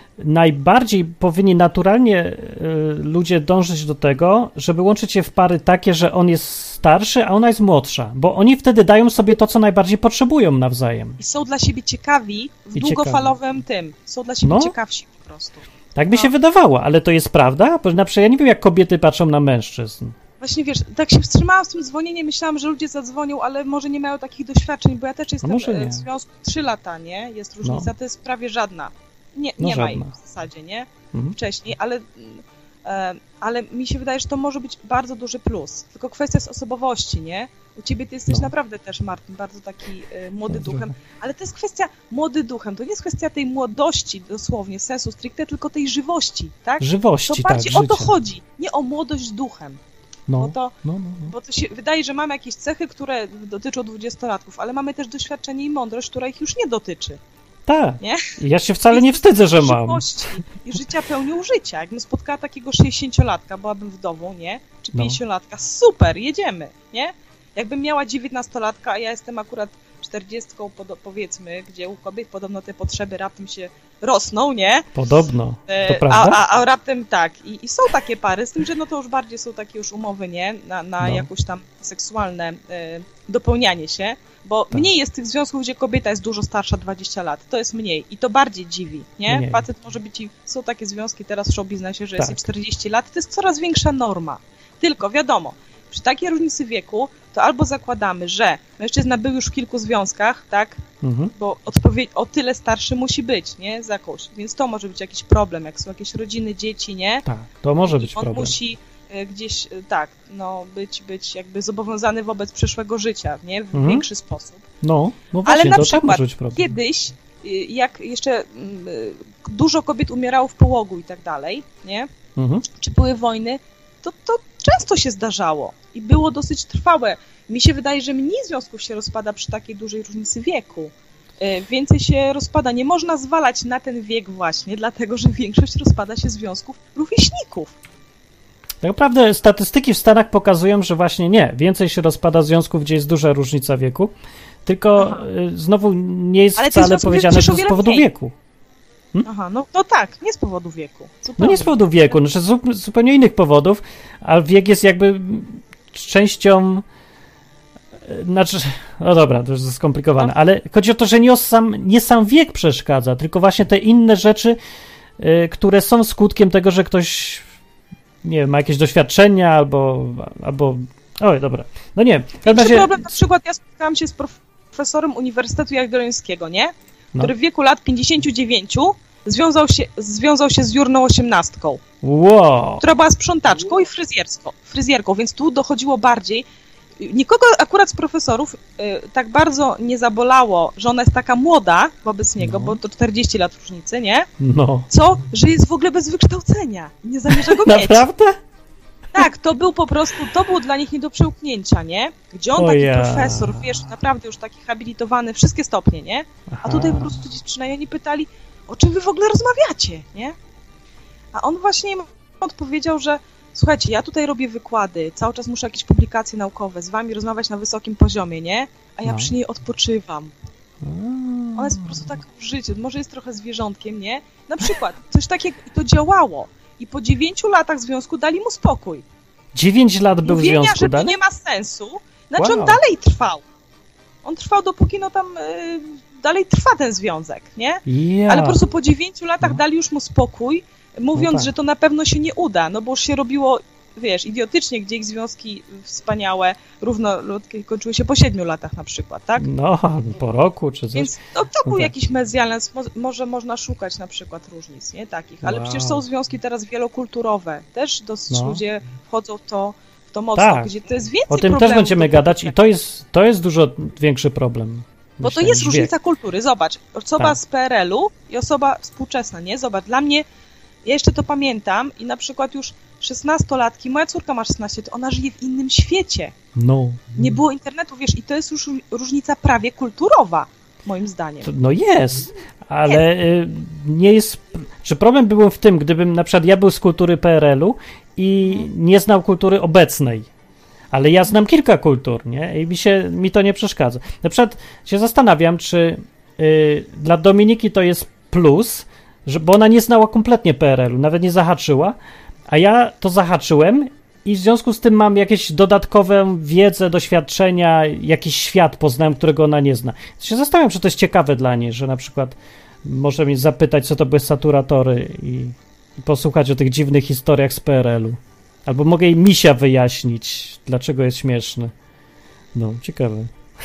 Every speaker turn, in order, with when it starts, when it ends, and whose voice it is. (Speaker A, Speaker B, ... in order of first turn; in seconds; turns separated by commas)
Speaker A: 0.2-11.2, Speaker B: 11.2-16.3, Speaker A: 12.7-13.4, Speaker A: 14.4-14.8, Speaker A: 15.9-20.2, Speaker B: 20.4-49.8, Speaker A: 25.4-26.0, Speaker A: 27.6-27.9, Speaker A: 29.6-30.1, Speaker A: 31.1-31.4, Speaker A: 40.5-40.9, Speaker A: 46.8-48.1, Speaker A: 50.3-51.3, Speaker B: 50.4-50.8, Speaker B: 51.3-57.2, Speaker A: 57.7-60.0, Speaker B: 58.0-58.3, Speaker B: 58.9-74.9, Speaker A: 65.0-65.2, Speaker A: 75.0-76.4, Speaker B: 75.7-100.8, Speaker A: 81.0-81.3, Speaker A: 89.3-89.7, Speaker A: 92.2-92.4, Speaker A: 101.0-101.3, Speaker B: 101.3-107.2, Speaker A: 107.2-108.6, Speaker B: 107.8-114.7, Speaker A: 113.7-114.0, Speaker A: 114.8-116.8, Speaker B: 115.5-122.1, Speaker A: 122.4-122.7, Speaker B: 122.8-137.7, Speaker A: 138.8-144.1, Speaker A: 144.7-148.3, Speaker B: 145.0-145.2, Speaker B: 146.6-148.1, Speaker B: 149.2-152.2, Speaker A: 151.4-156.8, Speaker A: 158.1-164.6, Speaker A: 165.2-167.5, Speaker A: 168.2-173.2, Speaker B: 172.4-181.8, Speaker A: 182.0-182.8, Speaker B: 182.8-186.4, Speaker B: 187.0-194.3, Speaker A: 192.4-192.8, Speaker A: 194.4-194.9, Speaker B: 194.9-198.1, Speaker A: 197.3-198.4, Speaker B: 199.2-210.3, Speaker A: 202.6-203.8, Speaker A: 206.5-207.3, Speaker B: 211.3-220.3, Speaker A: 219.1-219.3, Speaker A: 220.8-222.0, Speaker B: 221.6-229.0, Speaker A: 229.6-231.2, Speaker B: 230.2-233.4, Speaker A: 232.4-232.8, Speaker B: 234.2-249.5, Speaker A: 237.9-238.6, Speaker A: 241.1-241.5, Speaker A: 249.4-251.1, Speaker B: 250.9-262.6, Speaker A: 251.7-251.9, Speaker A: 255.4-256.0, Speaker A: 258.3-258.6, Speaker A: 260.4-260.7, Speaker A: 261.3-265.9, Speaker B: 265.2-270.3, Speaker B: 270.9-276.4, Speaker A: 276.6-277.4, Speaker B: 277.2-281.5, Speaker A: 281.4-290.3, Speaker A: 290.9-302.0, Speaker A: 302.5-321.7, Speaker A: 322.6-323.3